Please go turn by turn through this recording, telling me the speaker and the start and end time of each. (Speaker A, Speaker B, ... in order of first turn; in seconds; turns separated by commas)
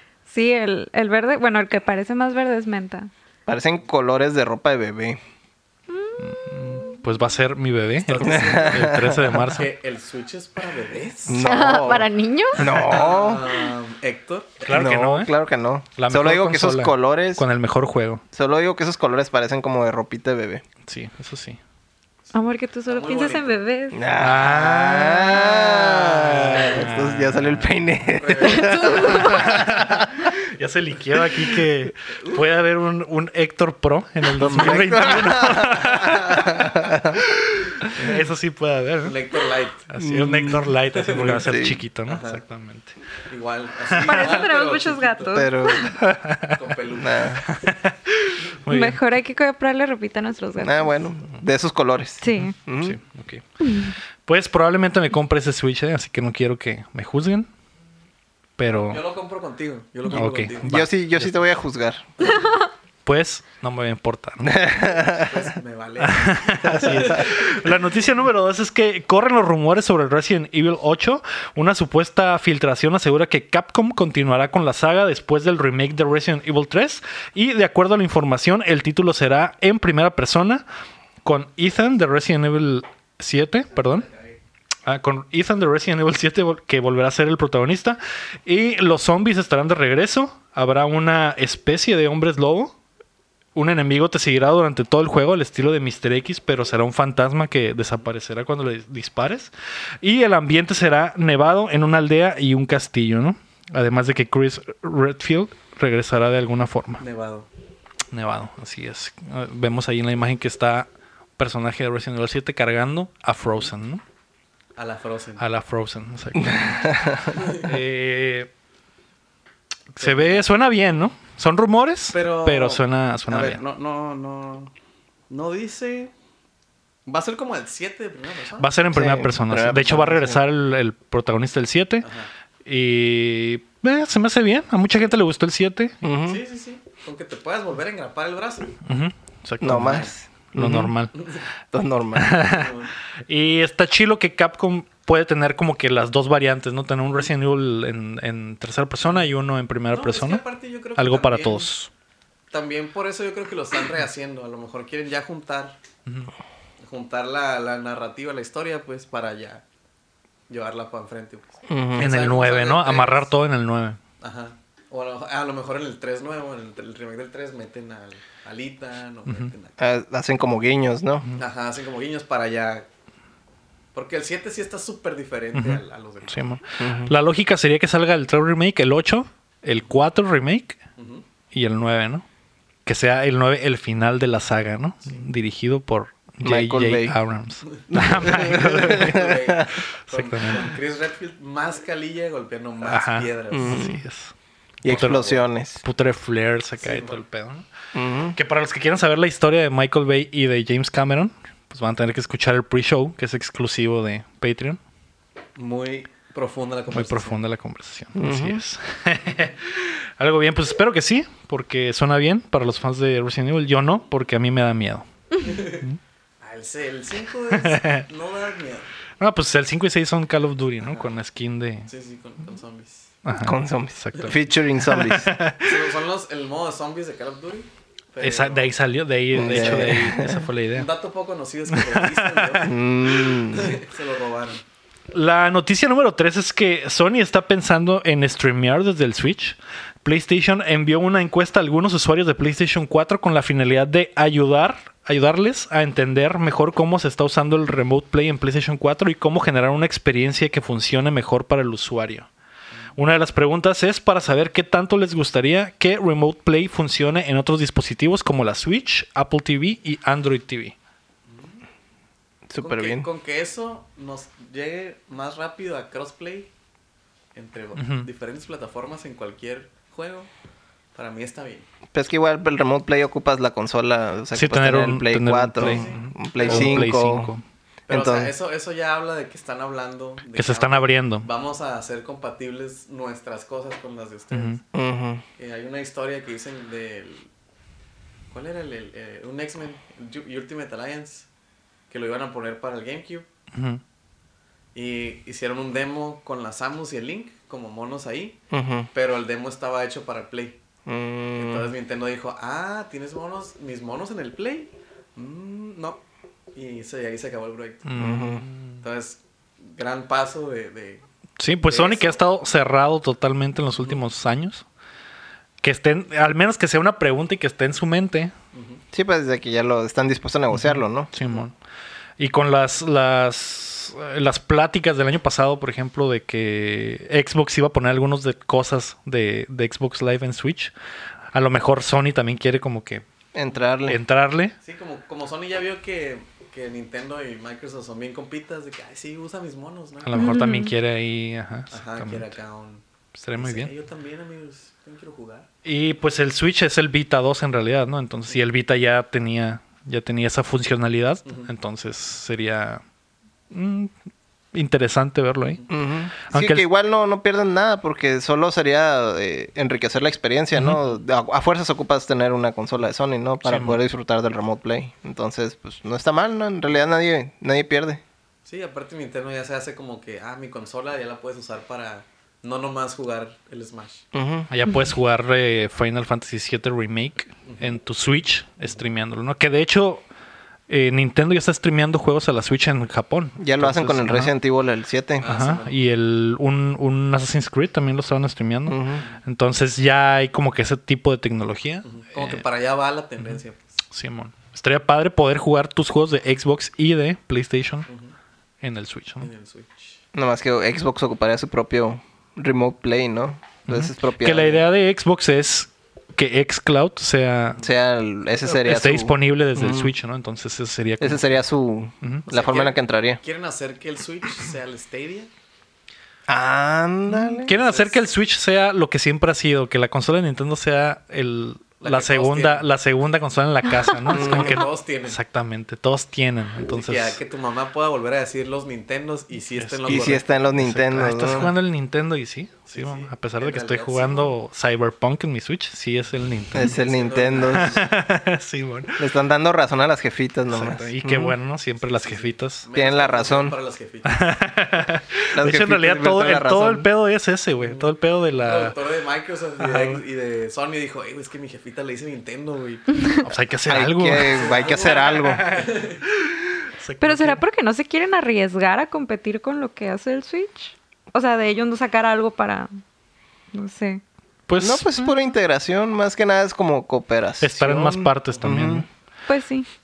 Speaker A: 0.3-3.1, Speaker B: 3.5-5.2, Speaker A: 5.9-7.0, Speaker C: 6.2-9.7, Speaker D: 8.0-11.4, Speaker B: 8.2-9.4, Speaker B: 11.3-13.4, Speaker A: 11.3-12.7, Speaker D: 12.6-14.7, Speaker C: 14.6-15.3, Speaker B: 14.7-17.4, Speaker C: 16.0-18.2, Speaker B: 18.3-20.6, Speaker C: 20.9-21.6, Speaker A: 22.3-24.0, Speaker D: 22.9-23.6, Speaker B: 23.9-30.1, Speaker C: 24.2-27.7, Speaker D: 28.1-29.3, Speaker A: 28.4-29.8, Speaker C: 29.4-39.2, Speaker D: 32.1-32.4, Speaker B: 34.4-37.2, Speaker D: 39.0-39.9, Speaker C: 39.9-43.0, Speaker B: 40.0-41.8, Speaker D: 42.0-42.4, Speaker D: 43.3-45.4, Speaker A: 44.0-46.0, Speaker B: 45.3-45.9, Speaker C: 45.8-46.6, Speaker D: 46.5-47.6, Speaker B: 47.0-47.4, Speaker C: 47.5-49.0, Speaker A: 48.7-51.0, Speaker B: 50.6-53.0, Speaker A: 52.2-52.5, Speaker C: 52.3-53.4, Speaker A: 53.6-53.9, Speaker C: 54.2-57.5, Speaker C: 58.6-59.0, Speaker D: 58.9-61.3, Speaker C: 60.1-60.9, Speaker B: 60.6-62.1, Speaker C: 63.0-65.0, Speaker B: 64.4-65.4, Speaker D: 65.0-67.5, Speaker C: 66.0-80.6, Speaker C: 81.2-84.1, Speaker D: 84.0-84.3, Speaker C: 84.8-92.7, Speaker C: 93.5-99.5, Speaker C: 100.0-107.0, Speaker D: 107.0-107.5, Speaker C: 108.1-114.0, Speaker D: 114.8-115.4, Speaker C: 115.4-118.5, Speaker B: 116.4-117.3, Speaker D: 117.3-117.7, Speaker C: 119.9-123.6, Speaker D: 120.0-120.5, Speaker D: 122.1-124.7, Speaker D: 125.3-126.1, Speaker D: 127.0-128.7, Speaker C: 128.6-132.1, Speaker B: 128.9-130.4, Speaker D: 132.0-132.3, Speaker C: 132.6-136.0, Speaker B: 136.0-136.4, Speaker D: 136.2-138.8, Speaker C: 138.8-141.1, Speaker B: 139.6-140.9, Speaker D: 139.7-140.1, Speaker D: 141.1-141.4, Speaker B: 141.7-142.4, Speaker C: 142.1-142.7, Speaker D: 142.5-142.9, Speaker C: 143.3-150.4, Speaker D: 149.9-151.7, Speaker C: 150.9-151.9, Speaker D: 152.5-155.8, Speaker C: 156.1-156.3, Speaker D: 156.8-159.6, Speaker D: 160.5-163.3, Speaker B: 161.7-162.1, Speaker C: 162.0-164.0, Speaker D: 164.2-169.8, Speaker C: 169.2-169.5, Speaker B: 169.8-171.3, Speaker D: 171.4-172.8, Speaker D: 173.9-176.4, Speaker C: 175.5-180.8, Speaker B: 176.8-177.1, Speaker D: 181.0-181.2, Speaker C: 181.5-182.2, Speaker C: 182.8-190.7, Speaker B: 186.4-187.2, Speaker D: 187.7-193.8, Speaker B: 187.9-189.3, Speaker C: 192.8-194.3, Speaker B: 193.5-194.0, Speaker B: 194.8-195.8, Speaker C: 194.8-197.7, Speaker D: 194.9-195.3, Speaker D: 196.8-197.2, Speaker B: 197.9-198.3, Speaker C: 198.3-204.8, Speaker D: 205.6-207.4, Speaker C: 206.9-215.1, Speaker B: 208.1-208.6, Speaker D: 215.4-215.8, Speaker D: 216.4-218.9, Speaker C: 217.5-218.0, Speaker C: 219.2-221.9, Speaker D: 220.8-221.1, Speaker D: 221.9-223.1, Speaker C: 223.2-225.8, Speaker B: 223.4-225.3, Speaker D: 225.6-228.7, Speaker C: 228.2-230.9, Speaker B: 229.3-230.4, Speaker D: 229.4-229.8, Speaker D: 230.7-232.8, Speaker C: 231.7-232.6, Speaker B: 232.6-233.8, Speaker D: 233.4-234.6, Speaker C: 235.1-252.3, Speaker C: 252.9-260.7, Speaker D: 261.3-261.6, Speaker B: 262.5-263.1, Speaker D: 262.6-266.5, Speaker D: 267.3-270.3, Speaker C: 267.8-268.1, Speaker D: 270.9-271.7, Speaker B: 271.9-277.3, Speaker C: 274.3-277.4, Speaker D: 275.6-276.9, Speaker D: 277.9-284.6, Speaker B: 277.9-278.3, Speaker C: 280.3-281.3, Speaker C: 284.3-284.6, Speaker B: 284.7-285.2, Speaker D: 285.4-287.3, Speaker D: 288.3-291.3, Speaker D: 291.9-293.2, Speaker C: 293.5-293.8, Speaker D: 294.7-298.4, Speaker B: 298.5-298.9, Speaker D: 298.9-300.6, Speaker B: 300.9-301.7, Speaker D: 301.3-306.0, Speaker D: 306.5-307.9, Speaker C: 307.8-308.8, Speaker B: 308.0-308.4, Speaker D: 308.8-311.0, Speaker C: 311.4-314.6, Speaker D: 311.6-312.2, Speaker C: 315.6-318.3, Speaker D: 318.5-318.8, Speaker B: 318.9-321.1, Speaker C: 320.5-321.5, Speaker C: 322.2-330.7, Speaker C: 331.3-333.0, Speaker B: 333.3-334.0, Speaker C: 333.9-334.5, Speaker D: 334.6-340.3, Speaker C: 340.1-342.3, Speaker A: 340.1-340.7, Speaker D: 341.7-342.8, Speaker C: 343.1-343.7, Speaker D: 343.4-345.5, Speaker C: 345.6-352.8, Speaker C: 353.5-353.9, Speaker C: 354.5-355.6, Speaker B: 355.7-368.0, Speaker C: 356.2-356.6, Speaker C: 360.5-360.8, Speaker C: 363.4-363.8, Speaker D: 368.4-374.0, Speaker B: 374.1-374.5, Speaker C: 374.5-380.0, Speaker D: 377.4-377.7, Speaker C: 380.7-384.3, Speaker B: 383.4-385.2, Speaker D: 385.2-385.8, Speaker C: 385.2-392.4, Speaker B: 388.7-389.0, Speaker D: 391.8-393.8, Speaker C: 393.9-397.9, Speaker D: 397.9-398.1, Speaker C: 398.6-399.3, Speaker D: 399.2-400.0, Speaker B: 400.1-404.6, Speaker C: 403.7-407.6, Speaker B: 407.6-409.9, Speaker C: 408.5-411.3, Speaker B: 411.0-413.2, Speaker D: 412.3-415.3, Speaker B: 416.3-417.5, Speaker C: 417.1-427.2, Speaker D: 417.5-418.0, Speaker D: 421.8-422.7, Speaker B: 424.1-424.6, Speaker D: 424.1-425.2, Speaker D: 426.7-430.2, Speaker C: 429.6-436.8, Speaker B: 429.9-431.5, Speaker D: 432.7-434.3, Speaker B: 436.5-437.8, Speaker D: 436.6-437.9, Speaker C: 437.4-439.0, Speaker B: 439.0-441.3, Speaker C: 440.5-442.6, Speaker D: 441.8-444.2, Speaker B: 442.7-443.5, Speaker C: 444.0-448.8, Speaker B: 445.3-446.9, Speaker D: 447.6-453.1, Speaker C: 449.6-450.0, Speaker C: 453.2-457.4, Speaker B: 453.7-455.5, Speaker D: 454.2-456.0, Speaker A: 457.0-462.7, Speaker A: 463.5-464.0, Speaker C: 464.5-464.9, Speaker B: 464.6-468.9, Speaker C: 467.4-468.9, Speaker A: 469.3-469.7